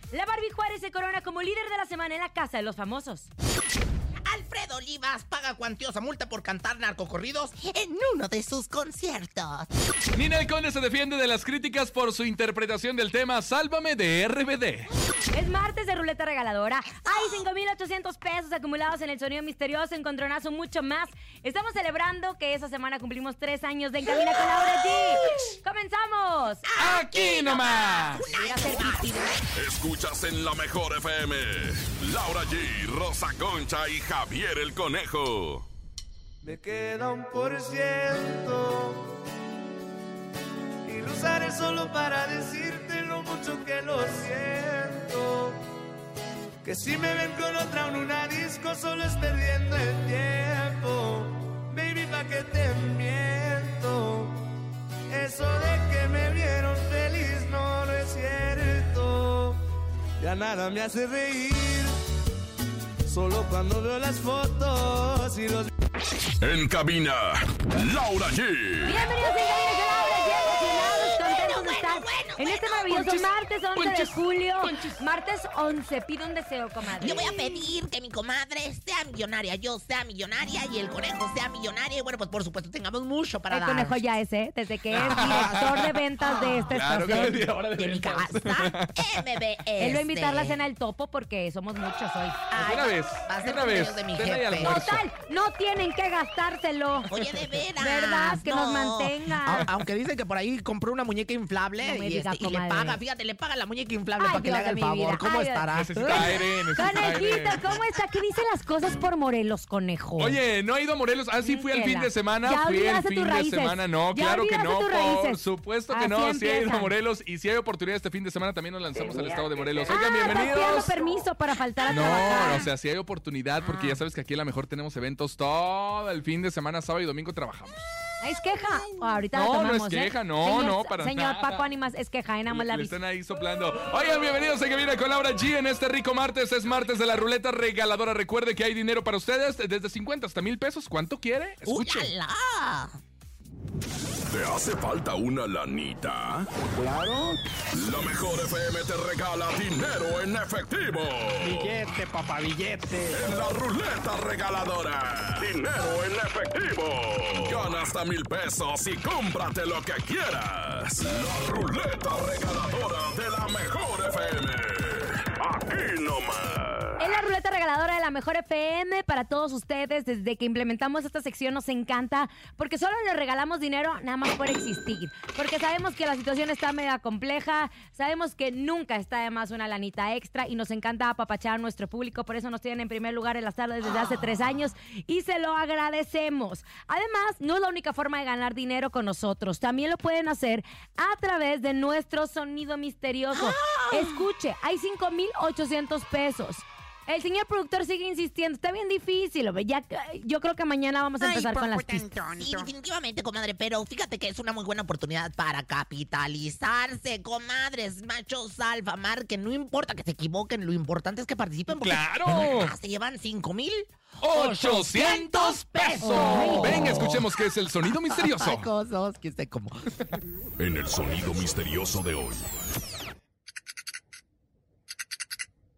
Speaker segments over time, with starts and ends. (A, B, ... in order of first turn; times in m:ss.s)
0:00.1-0:03.3 A
0:04.2-0:09.7 B
0:10.1-0:14.9 C
0:15.3-0:26.7 A
0:17.0-0:17.4 B
0:26.7-0:29.3 B
0:26.8-0:28.2 C
0:27.4-0:29.3 A
0:29.5-0:35.6 D
0:36.4-0:39.2 E
0:40.8-0:45.6 E
0:46.6-0:54.4 E
0:55.1-0:59.6 E
1:00.2-1:01.9 E
1:03.1-1:05.7 E
1:06.4-1:09.1 D
1:08.8-1:17.2 A
1:10.7-1:13.1 B
1:13.0-1:13.2 C
1:13.8-1:14.9 C
1:17.0-1:24.0 B
1:23.5-1:27.4 A
1:24.9-1:29.2 C
1:25.1-1:25.4 B
1:27.8-1:30.6 B
1:29.8-1:32.4 A
1:32.5-1:34.8 B
1:32.6-1:35.0 C
1:34.6-1:37.2 A
1:37.1-1:46.4 B
1:37.8-1:39.6 A
1:41.8-1:43.0 A
1:44.2-1:50.4 A
1:45.7-1:47.6 C
1:50.2-2:00.9 C
1:51.4-1:56.9 A
1:59.9-2:02.6 A
2:01.9-2:07.8 C
2:02.1-2:02.6 B
2:03.6-2:04.0 A
2:08.2-2:12.9 A
2:09.3-2:11.6 C
2:12.5-2:22.1 C
2:21.6-2:23.0 B
2:24.3-2:26.5 D
2:27.7-2:31.9 D
2:33.1-2:47.0 D
2:47.0-3:22.2 A
3:13.3-3:14.3 B
3:21.2-3:37.3 B
3:31.8-3:32.7 C
3:34.2-3:38.7 C
3:36.0-3:36.8 A
3:37.9-3:39.8 B
3:40.6-3:42.5 D